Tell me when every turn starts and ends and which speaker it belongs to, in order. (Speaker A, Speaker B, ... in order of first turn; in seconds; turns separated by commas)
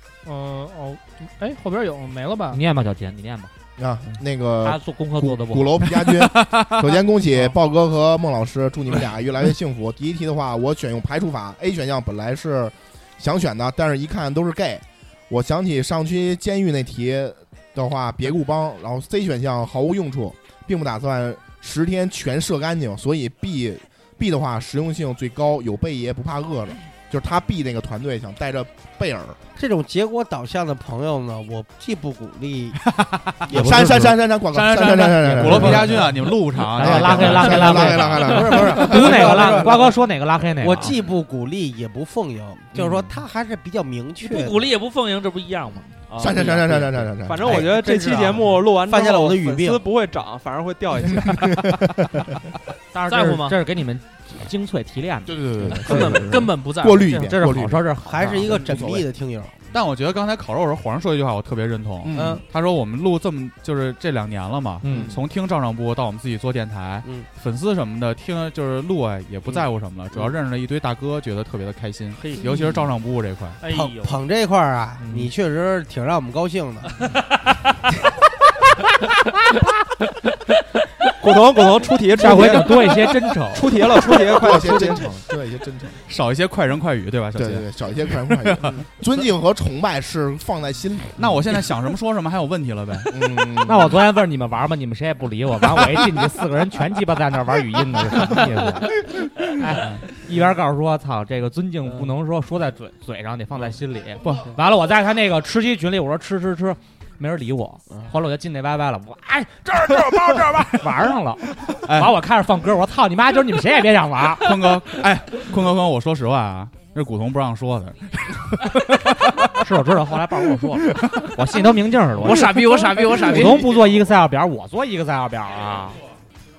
Speaker A: 0.2-2.6, Speaker B: 2.5-3.5, Speaker C: 3.8-29.4, Speaker B: 4.6-5.8, Speaker D: 5.8-7.0, Speaker E: 29.6-32.8, Speaker B: 33.5-36.0, Speaker E: 33.5-34.1, Speaker C: 33.5-36.1, Speaker D: 34.6-38.7, Speaker E: 35.3-35.8, Speaker B: 36.7-40.9, Speaker C: 36.8-39.6, Speaker E: 36.9-39.9, Speaker E: 40.6-44.6, Speaker F: 44.2-46.6, Speaker C: 46.2-47.9, Speaker G: 47.2-51.7, Speaker E: 47.9-48.3, Speaker E: 48.9-49.8, Speaker C: 51.3-51.6, Speaker B: 52.9-56.2, Speaker A: 53.0-53.6, Speaker C: 55.2-57.8, Speaker A: 55.7-57.1, Speaker B: 57.0-58.7, Speaker E: 58.0-59.5, Speaker C: 58.4-59.0, Speaker D: 59.7-73.6, Speaker C: 62.0-62.4, Speaker E: 62.1-62.4, Speaker B: 64.8-65.2, Speaker F: 72.2-72.5, Speaker F: 73.6-74.2, Speaker E: 73.7-76.9, Speaker B: 75.0-75.3, Speaker F: 77.0-77.7, Speaker G: 81.2-82.9, Speaker B: 82.1-84.0, Speaker G: 83.5-85.1, Speaker C: 84.2-86.0, Speaker D: 86.0-88.8, Speaker C: 87.3-91.6, Speaker D: 91.2-93.1, Speaker C: 93.1-94.0, Speaker B: 93.6-99.0, Speaker B: 99.6-114.7, Speaker D: 104.2-104.5, Speaker D: 111.6-112.2, Speaker D: 114.4-119.5, Speaker B: 119.6-126.0, Speaker A: 122.2-123.9